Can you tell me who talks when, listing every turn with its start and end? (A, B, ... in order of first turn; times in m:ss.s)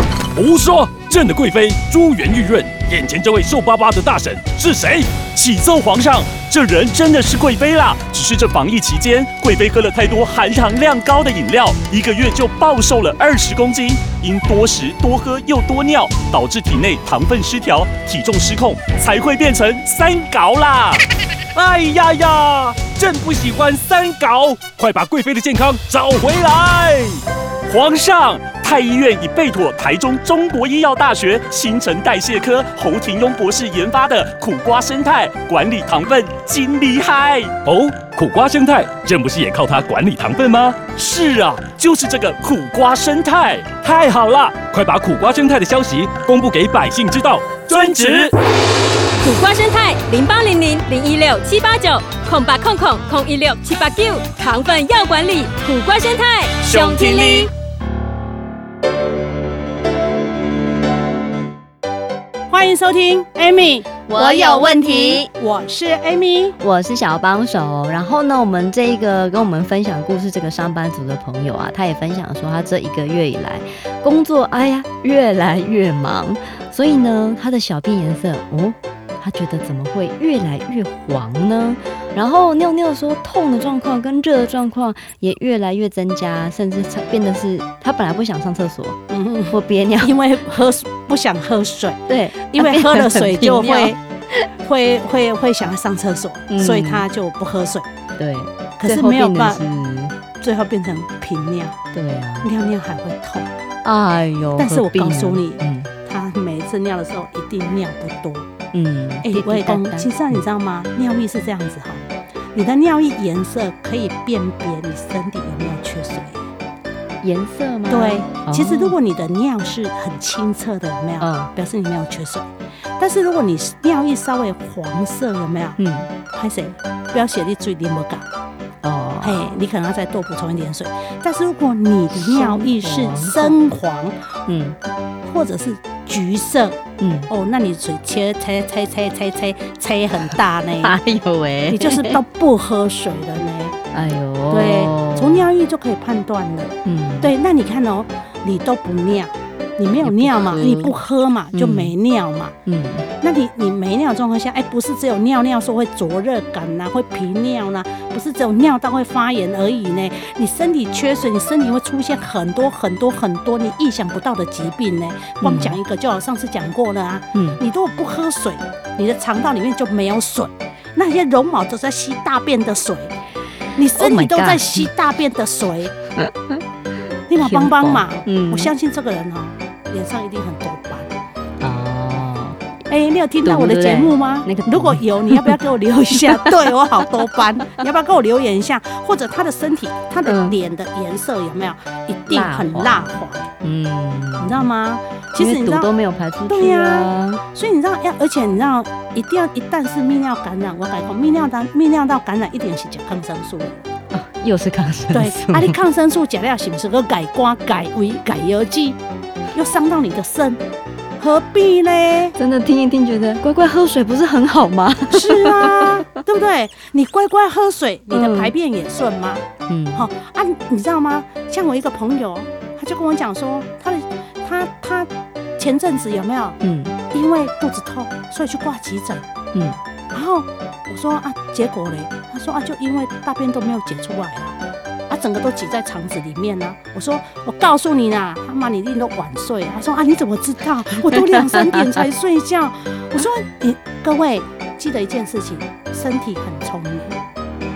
0:00.4-0:21.0 A
0:21.6-0:27.2 A
0:27.7-0:48.3 A
0:49.2-0:57.5 B
0:56.7-0:57.4 A
1:02.5-1:06.6 C
1:04.1-1:05.3 D
1:06.6-1:29.0 D
1:29.1-1:34.0 C
1:29.5-1:30.2 D
1:32.1-1:34.4 D
1:34.6-1:37.9 C
1:36.5-1:37.1 D
1:38.2-1:40.1 D
1:38.8-1:39.6 C
1:40.4-1:41.8 C
1:41.9-1:42.5 D
1:42.4-1:43.5 C
1:43.8-1:45.9 D
1:44.6-1:48.5 C
1:48.7-1:50.4 D
1:49.2-1:56.4 C
1:57.2-1:58.9 D
1:57.9-2:08.3 C
2:01.2-2:01.5 D
2:05.8-2:06.1 D
2:08.8-2:09.6 D
2:09.2-2:14.2 C
2:12.2-2:13.6 D
2:14.4-2:14.8 D
2:15.3-2:21.0 C
2:17.0-2:17.3 D
2:20.8-2:22.2 D
2:21.7-2:23.8 C
2:23.9-2:25.4 D
2:24.5-2:32.5 C
2:26.8-2:27.3 D
2:30.0-2:30.9 D
2:31.5-2:31.9 D
2:32.7-2:33.1 D
2:33.2-2:53.2 C
2:45.4-2:45.8 D
2:47.3-2:47.6 D
2:53.8-2:55.9 C
2:54.0-2:54.9 D
2:56.2-2:56.6 D
2:57.3-3:01.1 C
2:57.4-2:58.7 D
3:01.6-3:02.6 D
3:02.9-3:13.5 C
3:03.4-3:05.6 D
3:06.2-3:06.5 D
3:10.2-3:10.6 D
3:12.3-3:13.1 D
3:13.6-3:14.7 D
3:14.4-3:15.9 C
3:15.4-3:17.4 D
3:16.5-3:23.8 C
3:24.1-3:25.8 D
3:25.1-3:29.0 C
3:29.5-3:30.6 C
3:31.2-3:32.3 C
3:32.4-3:36.0 D
3:35.1-3:46.6 C
3:38.1-3:38.5 D
3:39.7-3:40.1 D
3:46.6-3:47.0 D
3:47.1-3:49.2 C
3:50.1-3:54.6 C
3:55.1-4:07.2 C